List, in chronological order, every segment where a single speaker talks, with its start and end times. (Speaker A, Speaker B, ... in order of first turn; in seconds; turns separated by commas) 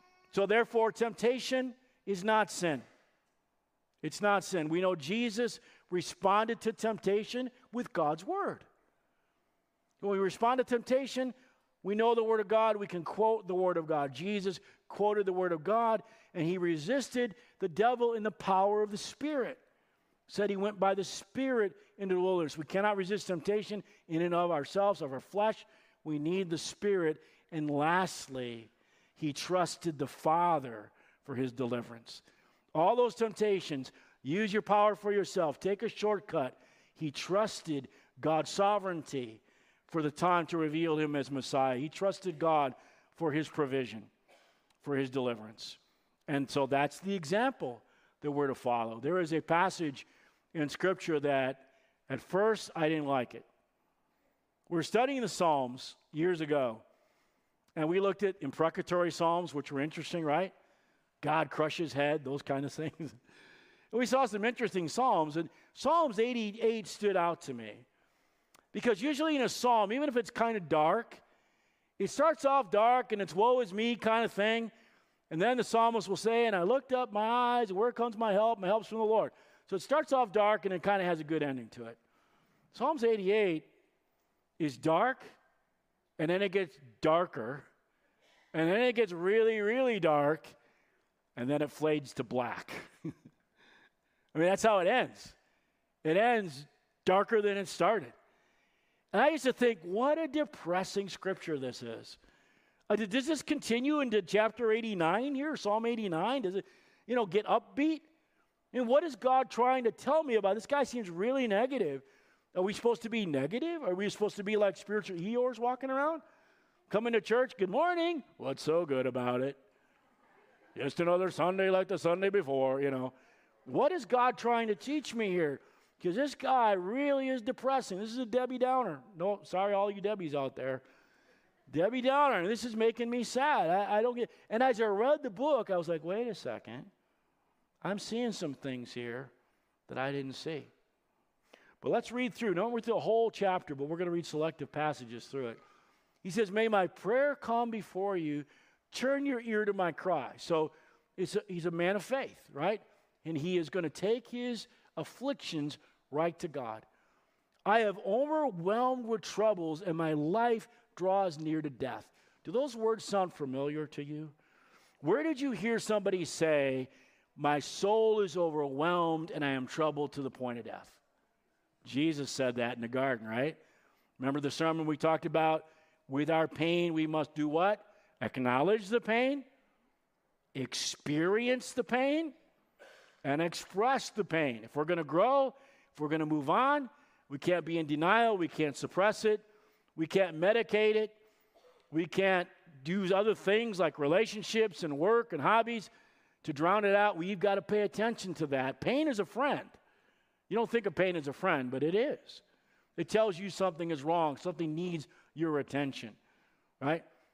Speaker A: 0.3-2.8, Speaker A: 4.0-8.7, Speaker A: 10.0-19.6, Speaker A: 20.3-32.2, Speaker A: 32.7-44.1, Speaker A: 44.8-53.5, Speaker A: 54.7-56.8, Speaker A: 57.8-60.5, Speaker A: 61.2-63.2, Speaker A: 63.9-67.8, Speaker A: 68.7-71.2, Speaker A: 72.0-74.7, Speaker A: 75.3-82.0, Speaker A: 82.7-83.7, Speaker A: 84.6-85.3, Speaker A: 86.2-87.7, Speaker A: 88.5-90.5, Speaker A: 91.3-92.9, Speaker A: 94.3-95.3, Speaker A: 96.0-98.1, Speaker A: 99.1-102.2, Speaker A: 102.9-108.0, Speaker A: 108.7-116.2, Speaker A: 116.9-119.6, Speaker A: 120.7-123.1, Speaker A: 123.6-130.8, Speaker A: 131.7-136.9, Speaker A: 137.8-139.3, Speaker A: 139.9-140.7, Speaker A: 141.8-145.6, Speaker A: 146.2-156.8, Speaker A: 157.7-164.3, Speaker A: 165.0-171.0, Speaker A: 171.8-173.6, Speaker A: 174.2-179.4, Speaker A: 180.5-182.3, Speaker A: 183.2-191.2, Speaker A: 191.9-195.9, Speaker A: 196.4-199.8, Speaker A: 200.5-202.4, Speaker A: 203.0-206.2, Speaker A: 206.8-207.0